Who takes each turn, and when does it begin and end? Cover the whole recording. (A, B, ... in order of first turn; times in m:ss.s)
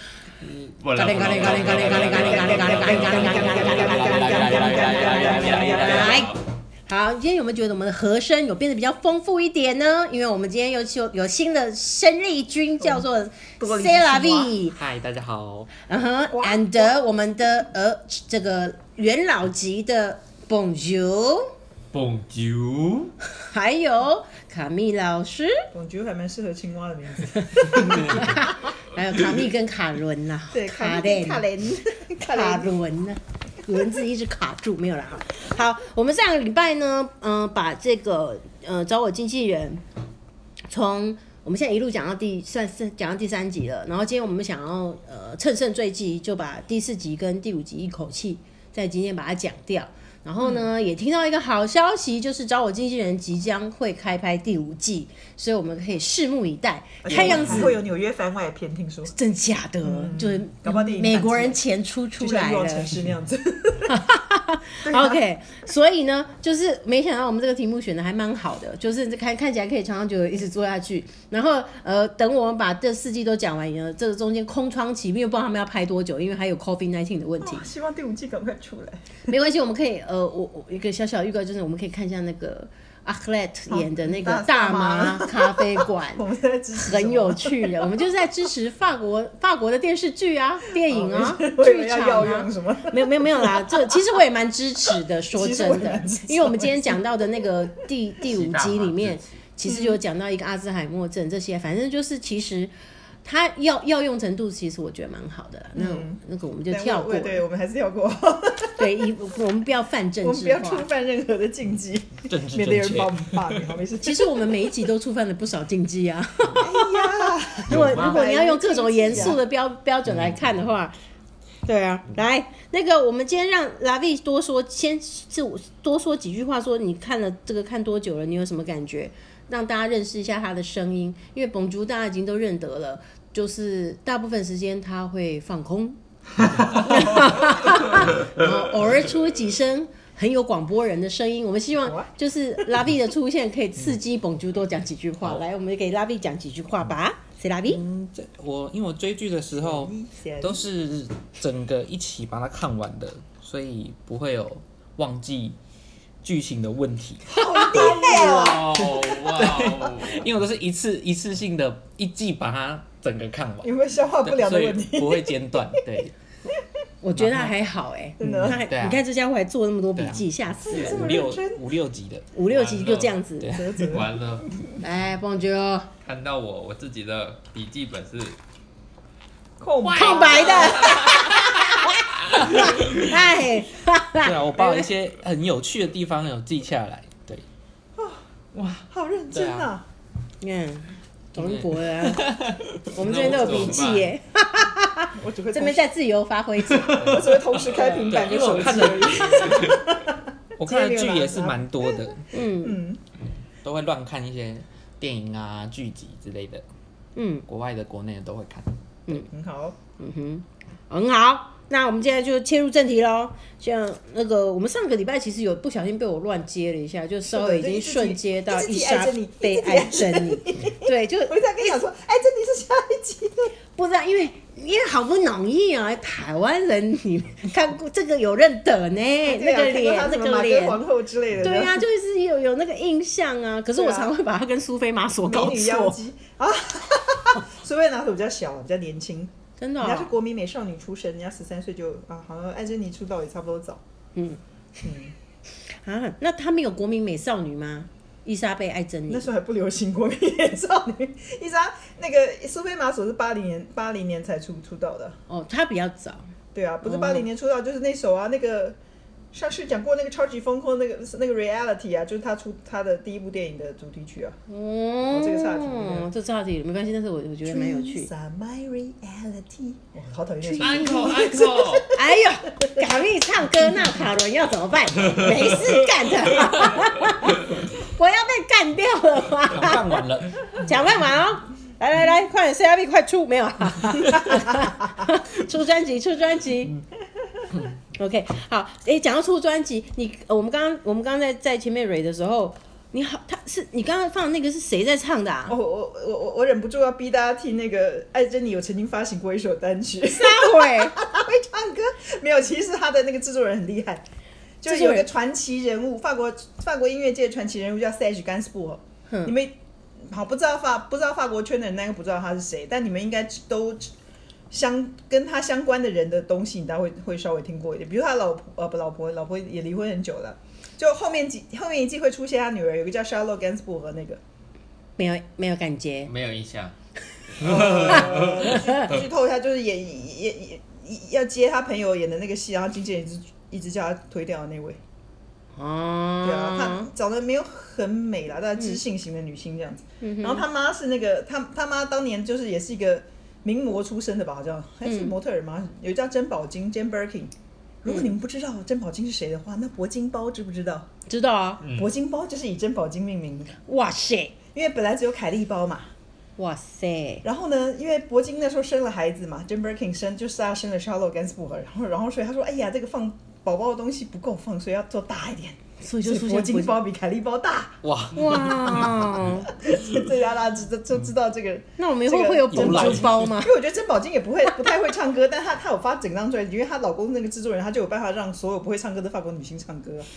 0:00.4-0:06.3 A
0:00.8-0:06.4 B
0:01.0-0:14.8 C
0:02.0-0:06.2 D
0:12.8-0:13.0 D
0:13.6-0:14.5 D
0:14.7-0:15.7 A
0:15.8-0:21.5 C
0:16.3-0:17.0 D
0:21.9-0:23.1 B
0:23.3-0:25.7 C
0:25.7-0:28.5 D
0:27.5-0:31.4 C
0:30.5-0:32.7 D
0:32.2-0:39.8 C
0:40.7-0:57.8 C
0:50.4-0:50.7 D
0:57.0-0:59.1 D
0:59.1-1:02.9 C
0:59.8-1:01.6 D
1:02.2-1:04.0 D
1:03.9-1:17.7 C
1:04.8-1:05.2 D
1:17.4-1:19.2 D
1:19.3-1:26.2 C
1:23.7-1:28.0 D
1:26.8-1:42.7 C
1:30.8-1:34.0 D
1:35.3-1:37.0 D
1:38.2-1:39.2 B
1:39.6-1:40.0 D
1:43.2-1:47.4 C
1:45.8-1:49.0 D
1:48.8-1:50.9 C
1:50.2-1:54.7 D
1:52.3-1:53.7 A
1:54.0-2:00.9 C
1:56.6-1:59.4 D
1:57.7-1:58.0 A
2:00.1-2:00.5 A
2:01.7-2:16.0 C
2:16.5-2:27.8 C
2:21.8-2:22.1 D
2:27.7-2:35.6 A
2:29.5-2:30.6 D
2:36.2-2:43.7 A
2:37.3-2:38.8 D
2:37.5-2:38.0 C
2:37.8-2:40.3 B
2:43.6-2:45.8 D
2:44.2-2:46.2 A
2:47.0-2:51.1 C
2:47.2-2:47.6 A
2:48.2-2:48.6 D
2:48.2-2:49.0 A
2:50.0-2:52.3 A
2:50.7-2:51.6 D
2:52.3-2:53.5 C
2:52.5-2:53.2 B
2:53.4-2:54.0 A
2:53.5-2:54.2 D
2:53.9-2:54.6 B
2:54.8-2:55.9 C
2:56.0-2:58.4 B
2:59.6-3:01.5 D
2:59.8-3:01.5 B
2:59.9-3:04.9 C
3:02.6-3:03.2 A
3:04.2-3:07.4 A
3:08.5-3:09.7 A
3:08.8-3:09.8 D
3:10.4-3:12.3 C
3:11.4-3:13.3 A
3:12.9-3:17.2 C
3:13.0-3:14.1 B
3:15.1-3:15.9 D
3:16.8-3:23.0 D
3:17.0-3:19.8 B
3:17.8-3:19.8 A
3:20.6-3:22.4 A
3:22.3-3:22.8 C
3:23.6-3:26.6 A
3:27.2-3:27.4 C
3:27.5-3:28.8 A
3:29.3-3:29.8 D
3:30.0-3:41.4 C
3:37.3-3:43.5 D
3:43.8-3:50.8 C
3:49.2-3:51.8 D
3:51.4-3:56.0 C
3:53.8-3:54.2 D
3:55.2-4:03.8 D
3:59.6-4:00.1 C
4:04.2-4:04.4 C
4:04.8-4:05.1 D
4:05.8-4:09.3 C
4:09.1-4:15.2 D
4:15.3-4:16.3 C
4:16.5-4:18.8 D
4:16.8-4:17.2 C
4:19.3-4:24.4 D
4:24.5-4:28.1 C
4:25.1-4:26.1 D
4:27.4-4:32.8 D
4:30.5-4:31.9 B
4:31.9-4:46.8 C
4:35.1-4:35.7 B
4:39.5-4:40.6 A
4:47.9-4:55.6 C
4:55.5-5:04.0 D
5:00.1-5:01.0 C
5:04.6-5:09.6 D
5:04.6-5:05.1 C
5:09.1-5:09.3 C
5:10.1-5:13.9 D
5:14.5-5:24.2 D
5:25.0-5:26.1 C
5:26.0-5:26.7 B
5:27.4-5:28.7 B
5:27.4-5:34.8 D
5:27.9-5:28.9 C
5:35.6-5:36.9 C
5:36.2-5:47.3 D
5:40.0-5:40.4 C
5:44.8-5:45.1 C
5:47.8-5:50.9 D
5:51.1-5:51.6 C
5:51.6-5:51.9 B
5:51.7-5:53.6 D
5:53.7-5:54.3 C
5:54.5-5:55.9 D
5:56.4-5:57.2 C
5:57.2-6:20.1 D
6:05.8-6:06.7 C
6:07.8-6:09.9 A
6:08.1-6:09.5 C
6:11.8-6:13.5 C
6:12.5-6:13.3 A